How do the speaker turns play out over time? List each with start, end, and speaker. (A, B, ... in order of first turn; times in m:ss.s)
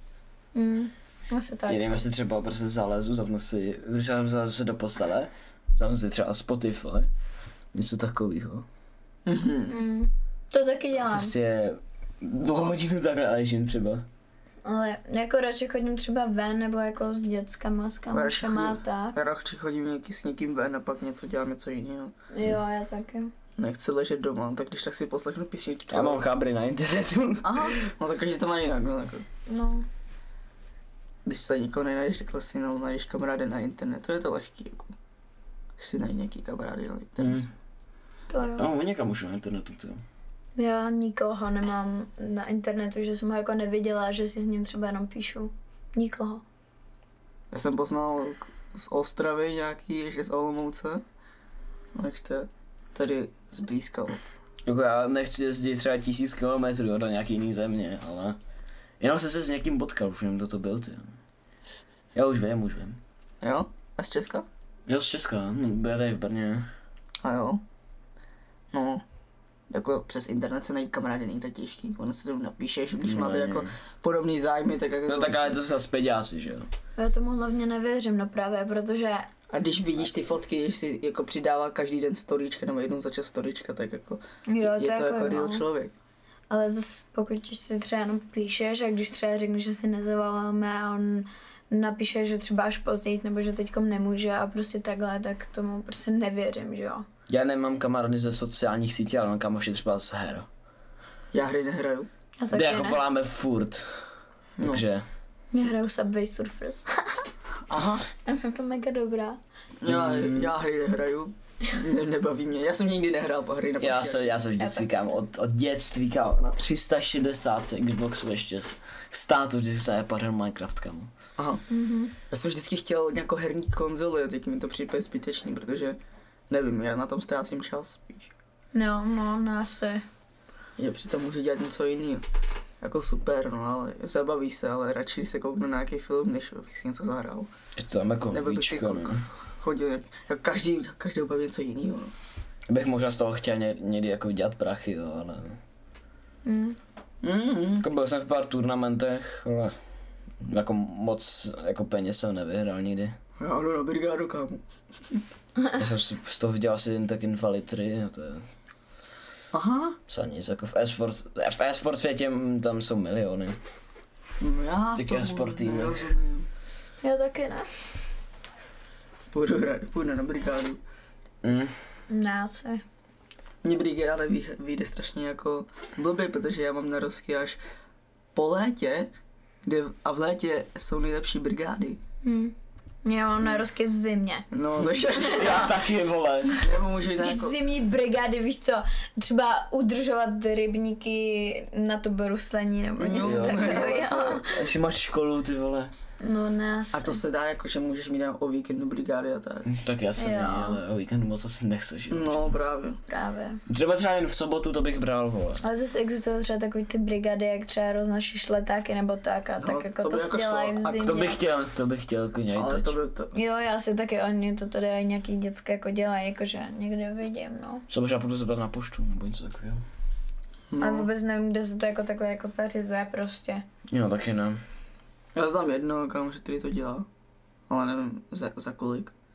0:00.5-0:02.0 A
0:01.7-0:07.1 B
0:07.7-0:08.6 B
0:09.2-0:09.8 C
0:09.7-0:11.3 A
0:11.0-0:14.0 B
0:14.6-0:19.2 A
0:18.1-0:22.1 C
0:22.3-0:23.3 A
0:23.6-0:26.2 C
0:25.9-0:27.8 B
0:27.4-0:29.2 C
0:29.5-0:29.8 A
0:31.2-0:34.9 C
0:35.8-0:37.5 C
0:37.2-0:37.5 B
0:38.3-0:38.7 A
0:38.5-0:40.0 B
0:40.6-0:46.4 A
0:47.5-0:51.0 C
0:51.9-0:54.4 C
0:54.6-0:58.4 B
0:59.0-1:01.2 B
1:02.1-1:03.0 B
1:03.4-1:04.5 C
1:04.9-1:06.7 B
1:07.2-1:07.6 C
1:08.7-1:09.0 C
1:09.7-1:15.6 C
1:13.0-1:13.7 B
1:15.1-1:16.7 B
1:17.0-1:19.3 A
1:19.5-1:25.9 C
1:24.5-1:25.6 A
1:26.5-1:37.0 A
1:37.3-1:40.5 B
1:41.3-1:42.1 C
1:42.4-1:43.0 A
1:42.5-1:43.9 B
1:44.6-1:44.8 C
1:44.6-1:45.0 B
1:45.5-1:47.2 A
1:47.7-1:48.0 C
1:48.2-1:49.4 A
1:49.8-1:54.4 C
1:49.8-1:50.5 B
1:53.8-2:01.1 B
1:54.6-1:54.8 A
2:01.4-2:01.6 C
2:01.7-2:02.1 A
2:02.3-2:06.0 C
2:06.5-2:08.3 C
2:08.7-2:10.0 A
2:10.8-2:12.2 C
2:12.8-2:17.5 C
2:17.8-2:19.2 B
2:18.3-2:22.1 C
2:22.7-2:25.6 B
2:26.4-2:26.8 A
2:27.2-2:27.8 C
2:27.8-2:29.7 B
2:30.4-2:33.2 B
2:33.4-2:35.2 C
2:35.8-2:38.5 B
2:39.5-2:40.0 C
2:40.1-2:43.6 B
2:44.4-2:46.5 C
2:44.9-2:46.1 B
2:47.0-2:47.7 A
2:49.3-2:50.8 C
2:51.4-2:51.7 B
2:52.1-2:52.8 A
2:53.6-2:57.6 C
2:58.3-2:59.1 C
2:59.6-3:02.0 C
3:02.2-3:04.5 A
3:04.5-3:05.7 C
3:05.1-3:06.6 B
3:06.5-3:07.6 C
3:07.2-3:14.6 A
3:13.0-3:14.5 C
3:13.1-3:15.9 B
3:16.2-3:17.2 A
3:16.9-3:19.7 C
3:19.6-3:22.5 B
3:20.2-3:20.8 A
3:22.1-3:23.0 C
3:23.1-3:23.6 A
3:23.7-3:25.6 B
3:25.6-3:31.4 A
3:29.6-3:31.2 C
3:31.0-3:32.9 B
3:32.5-3:33.3 C
3:33.3-3:37.8 A
3:37.9-3:39.8 B
3:40.7-3:41.1 C
3:40.8-3:43.6 A
3:43.9-3:44.6 B
3:45.3-3:47.1 C
3:47.7-3:49.1 C